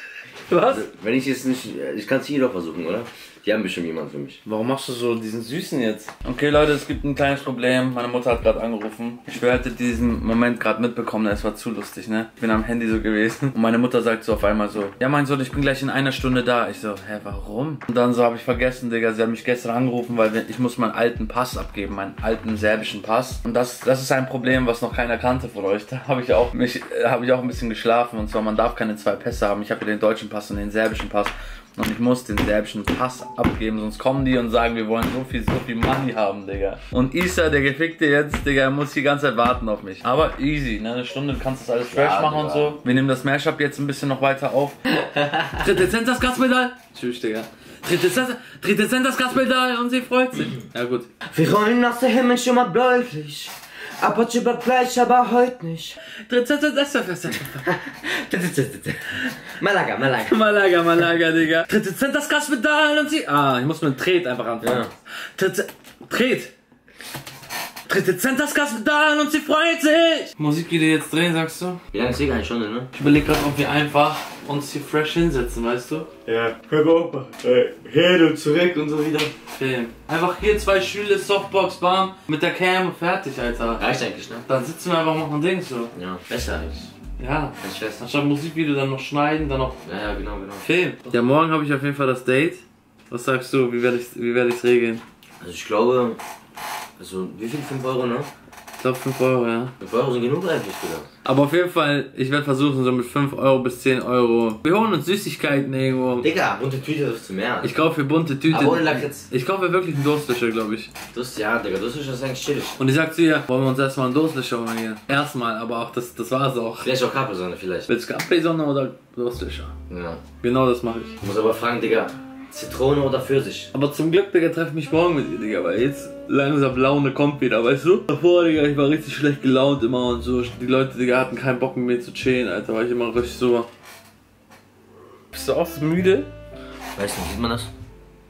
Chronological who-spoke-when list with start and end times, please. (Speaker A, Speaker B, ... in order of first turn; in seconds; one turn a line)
Speaker A: 0.5-0.9
Speaker B: 0.7-4.4
Speaker A: 4.5-44.8
Speaker B: 41.9-42.8
Speaker B: 45.0-45.6
Speaker A: 45.5-51.1
Speaker B: 51.3-56.0
Speaker A: 56.3-57.7
Speaker B: 57.5-60.6
Speaker A: 60.2-66.5
Speaker B: 64.6-64.9
Speaker A: 67.9-71.8
Speaker B: 71.9-72.9
Speaker A: 72.9-83.8
Speaker B: 83.8-84.5
Speaker A: 84.5-85.9
Speaker B: 85.9-86.9
Speaker A: 87.2-89.8
Speaker B: 87.6-88.0
Speaker B: 89.8-90.7
Speaker A: 90.6-95.0
Speaker B: 95.4-96.2
Speaker B: 97.0-98.3
Speaker A: 98.8-99.7
Speaker B: 99.8-101.1
Speaker A: 101.2-106.3
Speaker B: 106.2-107.7
Speaker A: 107.6-110.9
Speaker B: 108.5-109.3
Speaker B: 111.1-112.8
Speaker A: 112.8-116.9
Speaker B: 116.8-117.9
Speaker A: 117.9-119.7
Speaker B: 119.9-120.2
Speaker A: 120.4-121.2
Speaker B: 121.2-123.7
Speaker A: 123.7-133.7
Speaker A: 135.3-136.3
Speaker B: 136.9-137.7